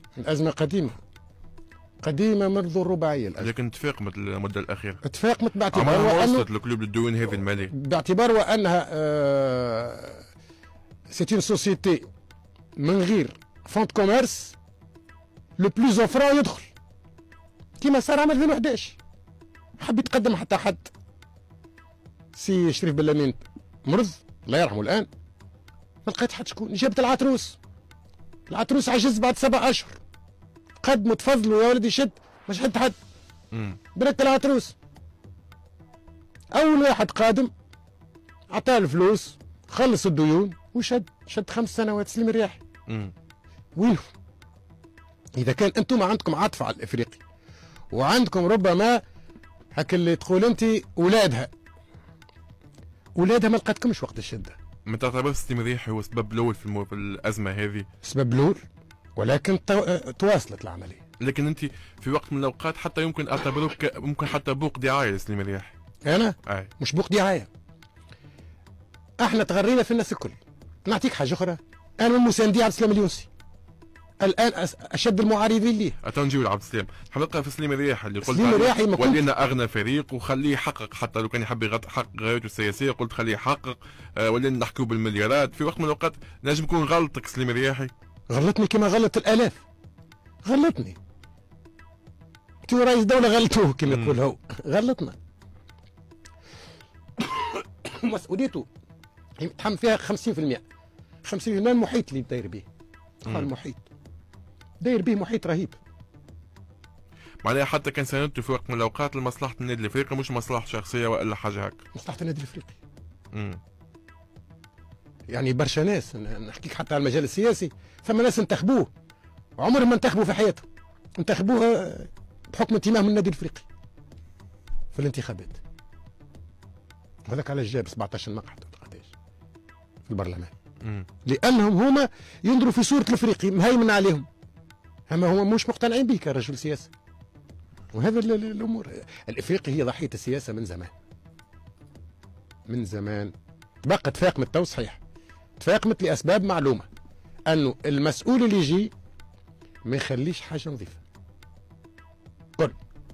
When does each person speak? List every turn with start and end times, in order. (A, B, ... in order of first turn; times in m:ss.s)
0:00.2-0:00.9 A
0:02.0-0:03.5 A
0:03.4-0:05.0 B
0:05.0-0:06.5 A
0:05.7-0:07.7 B
0:07.7-0:10.2 A
0:11.1-0:12.1 A
0:12.8-0:14.6 A
0:15.6-0:16.7 A
0:17.8-0:19.0 A
0:19.8-0:20.9 A
0:22.3-0:25.1 A
0:26.0-0:27.6 A
0:28.5-0:30.0 A
0:30.8-0:33.0 A
0:33.5-0:33.8 B
0:33.9-0:34.7 A
0:36.5-0:37.5 A
0:38.5-0:42.6 A
0:42.9-0:43.1 B
0:43.8-0:44.0 A
0:45.4-0:47.2 A
0:47.9-0:49.0 A
0:49.7-0:51.5 A
0:53.2-0:54.6 A
0:54.9-0:57.9 B
0:58.0-0:58.6 A
0:59.2-1:01.0 A
1:01.2-1:05.7 B
1:06.0-1:07.5 A
1:09.2-1:13.3 A
1:14.2-1:16.0 A
1:16.0-1:27.9 B
1:18.2-1:19.2 A
1:28.3-1:29.6 A
1:30.4-1:31.0 A
1:32.6-1:35.1 A
1:33.9-1:34.2 B
1:37.2-1:38.7 A
1:39.4-1:40.6 A
1:41.2-1:42.6 A
1:43.2-1:43.9 A
1:44.8-1:45.8 A
1:47.4-1:51.8 B
1:51.9-1:52.8 A
1:53.3-1:53.6 B
1:55.3-1:58.9 A
1:59.6-2:00.6 A
2:01.2-2:03.6 A
2:04.9-2:05.6 A
2:07.2-2:09.1 A
2:10.0-2:10.5 A
2:10.8-2:11.1 B
2:11.2-2:14.3 A
2:15.1-2:16.9 A
2:17.9-2:20.9 A
2:22.7-2:23.3 A
2:23.8-2:25.0 A
2:25.6-2:26.8 A
2:27.5-2:28.9 A
2:29.8-2:31.0 A